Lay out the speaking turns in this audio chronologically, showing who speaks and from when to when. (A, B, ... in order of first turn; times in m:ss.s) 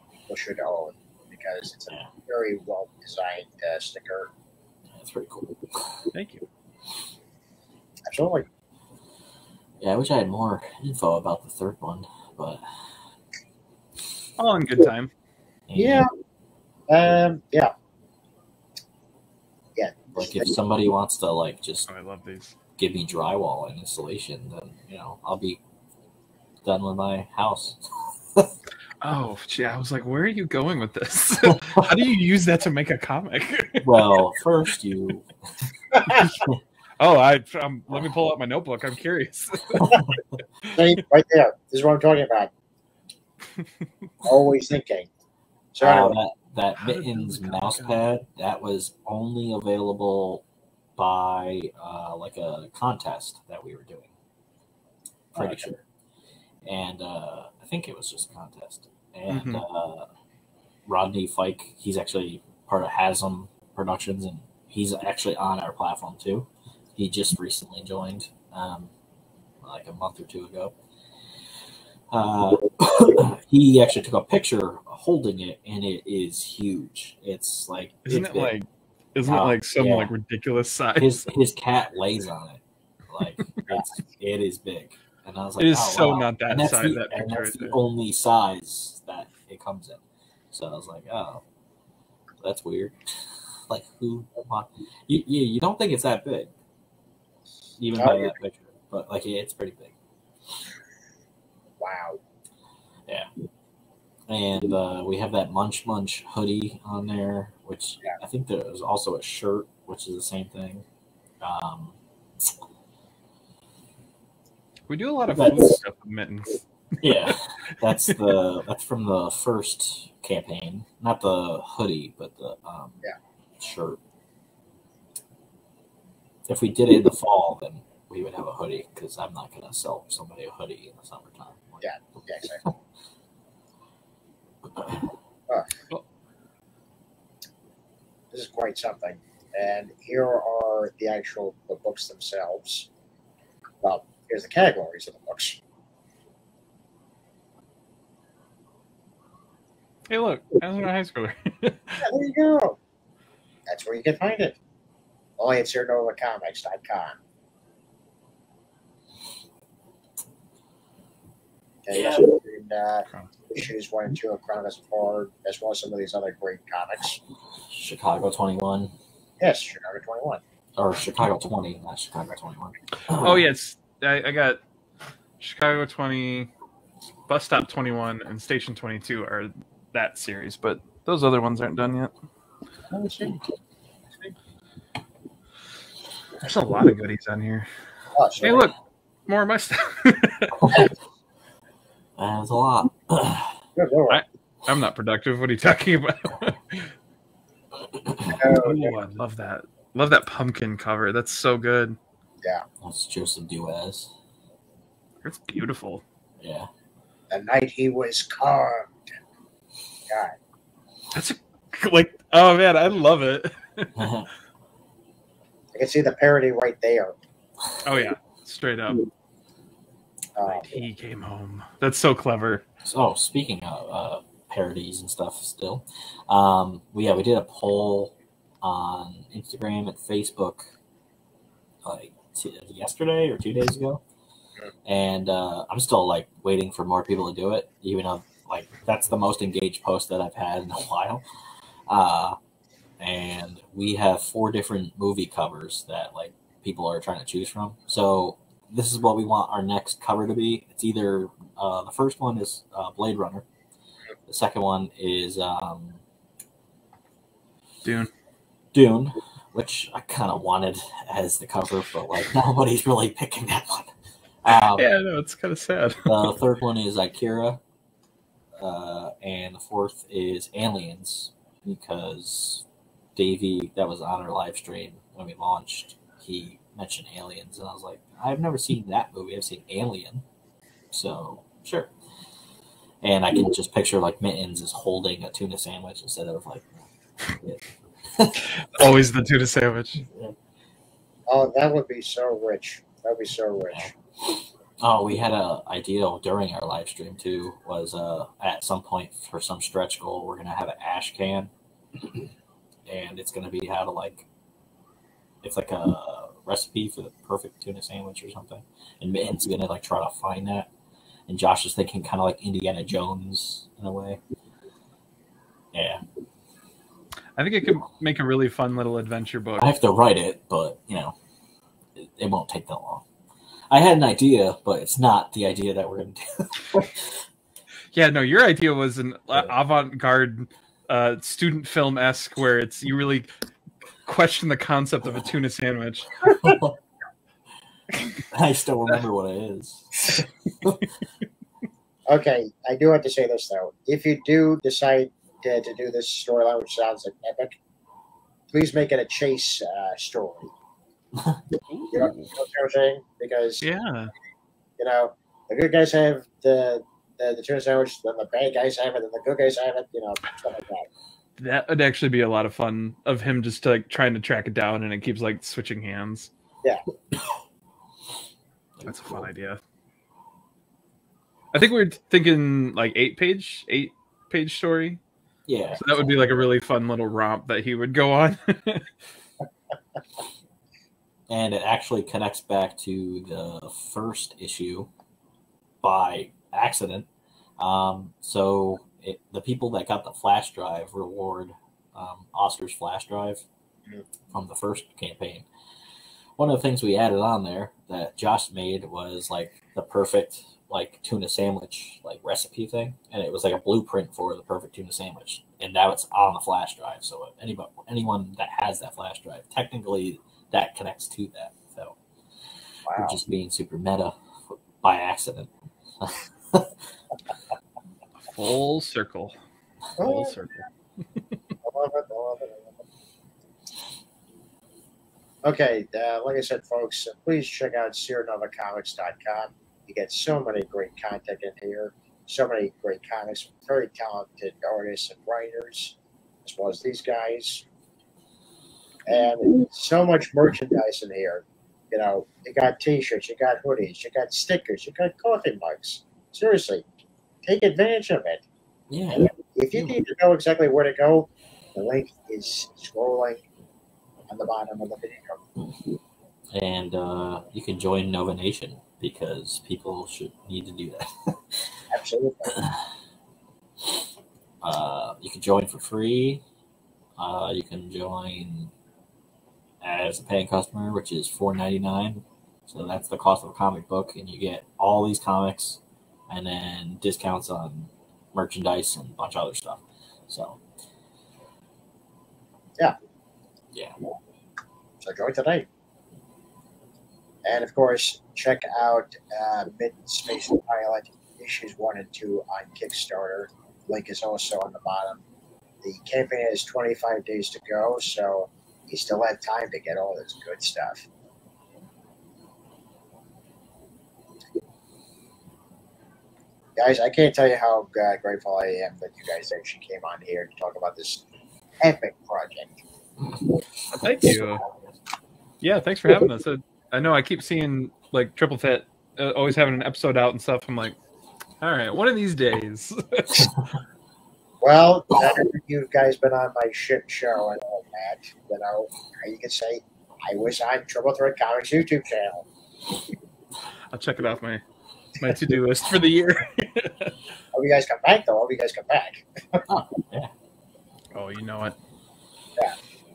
0:00.3-0:04.3 A
0:04.9-0:06.1 B
0:06.1-0:06.4 C
0:08.1-0:08.4 A
0:09.8-0:12.6 B
0:14.4-0:15.1 C
0:15.7-0:16.0 B
0:15.7-0:16.1 A
0:16.9-0:17.7 A
0:19.8-0:20.5 A
0:20.1-0:21.9 B
0:21.9-0:22.6 C
0:22.8-0:25.6 B
0:26.6-0:28.5 B
0:29.0-0:34.0 C
0:31.4-0:31.9 B
0:33.8-0:35.3 B
0:35.9-0:36.3 A
0:36.2-0:36.6 B
0:37.0-0:40.2 C
0:39.8-0:40.2 B
0:40.7-0:42.5 A
0:44.2-0:45.1 A
0:45.7-0:46.2 A
0:45.8-0:50.4 B
0:46.8-0:48.0 C
0:51.0-0:54.1 B
0:55.3-0:55.8 B
0:55.4-0:55.7 A
0:56.6-1:00.1 B
0:59.3-0:59.6 C
1:00.9-1:08.9 B
1:09.6-1:10.7 B
1:12.1-1:18.5 B
1:18.0-1:21.3 C
1:19.2-1:20.1 B
1:21.0-1:31.4 B
1:23.4-1:23.8 C
1:25.6-1:27.8 C
1:32.4-1:36.5 B
1:37.8-1:39.9 B
1:38.0-1:38.3 A
1:41.8-1:42.2 A
1:44.3-1:50.8 B
1:51.4-1:52.6 B
1:54.9-1:58.4 C
1:55.3-1:55.8 B
1:57.0-2:03.0 B
2:03.6-2:04.0 B
2:06.5-2:11.8 B
2:11.8-2:12.6 A
2:14.7-2:15.1 B
2:18.3-2:22.9 A
2:23.8-2:25.6 A
2:30.1-2:32.0 C
2:32.0-2:32.8 A
2:33.7-2:34.6 A
2:35.4-2:37.2 A
2:41.9-2:47.2 A
2:41.9-2:42.2 B
2:47.7-2:48.9 B
2:49.4-2:50.4 A
2:50.8-2:53.4 B
2:53.1-2:54.6 C
2:55.4-2:56.5 C
2:57.3-3:02.1 C
3:02.9-3:03.4 A
3:06.4-3:07.7 C
3:08.1-3:08.7 A
3:08.4-3:08.7 C
3:09.3-3:10.9 C
3:12.2-3:13.6 B
3:13.8-3:14.2 A
3:14.1-3:16.9 C
3:17.9-3:18.4 B
3:18.4-3:19.0 A
3:18.6-3:22.0 C
3:22.8-3:24.1 B
3:25.2-3:26.0 C
3:26.4-3:26.7 B
3:27.3-3:29.0 A
3:30.1-3:30.4 A
3:31.1-3:34.1 C
3:34.0-3:34.3 B
3:35.7-3:37.1 A
3:37.8-3:39.1 C
3:40.4-3:40.8 A
3:40.4-3:42.6 C
3:42.8-3:50.7 B
3:51.8-3:54.0 B
3:54.8-4:01.2 B
4:01.9-4:02.4 B
4:03.0-4:13.4 B
4:14.3-4:16.0 B
4:17.8-4:18.1 C
4:18.7-4:23.9 B
4:24.4-4:24.9 B
4:24.7-4:26.4 C
4:26.0-4:27.6 B
4:28.6-4:32.6 B
4:33.2-4:40.2 B
4:40.9-4:41.9 B
4:43.0-4:48.5 B
4:48.5-4:50.0 C
4:50.0-4:50.4 B
4:51.3-4:53.9 A
4:53.7-5:02.3 B
5:02.9-5:04.3 B
5:05.4-5:10.7 B
5:11.3-5:14.2 B
5:15.7-5:16.0 B
5:17.4-5:19.7 C
5:19.6-5:21.1 B
5:22.0-5:23.0 B
5:23.7-5:27.2 B
5:27.9-5:33.3 C
5:34.0-5:36.3 C
5:36.4-5:36.8 B
5:38.3-5:40.8 B
5:42.1-5:47.6 A
5:48.5-5:50.5 A
5:51.2-5:51.4 B
5:51.7-5:52.3 C
5:51.9-5:53.6 A
5:53.6-5:54.1 C
5:54.8-6:00.9 A
6:01.4-6:06.3 C
6:07.1-6:07.4 B
6:08.8-6:09.3 B
6:08.8-6:09.6 C
6:11.5-6:15.0 C
6:15.5-6:16.2 B
6:15.7-6:18.9 C
6:21.3-6:24.9 B
6:25.8-6:27.1 B
6:27.6-6:33.4 B
6:34.3-6:35.5 B
6:36.4-6:52.0 B
6:52.9-6:53.2 A
6:53.0-6:55.5 B
6:56.0-6:56.8 B
6:58.2-6:59.4 C
7:00.0-7:00.4 A
7:00.0-7:00.6 C
7:01.6-7:02.8 A
7:05.4-7:17.6 A
7:19.1-7:26.8 A
7:27.4-7:28.4 A
7:28.9-7:29.9 B
7:29.1-7:33.4 A
7:34.3-7:35.4 A
7:36.5-7:41.7 B
7:41.9-7:42.6 A
7:42.5-7:42.8 B
7:44.6-7:46.4 B
7:47.2-7:48.7 B
7:49.8-8:00.6 B
8:05.0-8:05.7 A
8:07.4-8:15.2 A
8:15.8-8:21.0 A
8:26.8-8:31.2 A
8:31.8-8:32.8 A
8:33.2-8:35.0 B
8:33.9-8:34.6 C
8:35.6-8:41.0 C
8:41.6-8:43.5 C
8:44.6-8:52.4 A
8:53.9-8:54.6 C
8:55.2-8:57.1 C
8:57.5-8:59.6 A
8:59.7-9:00.3 B
9:01.1-9:01.8 C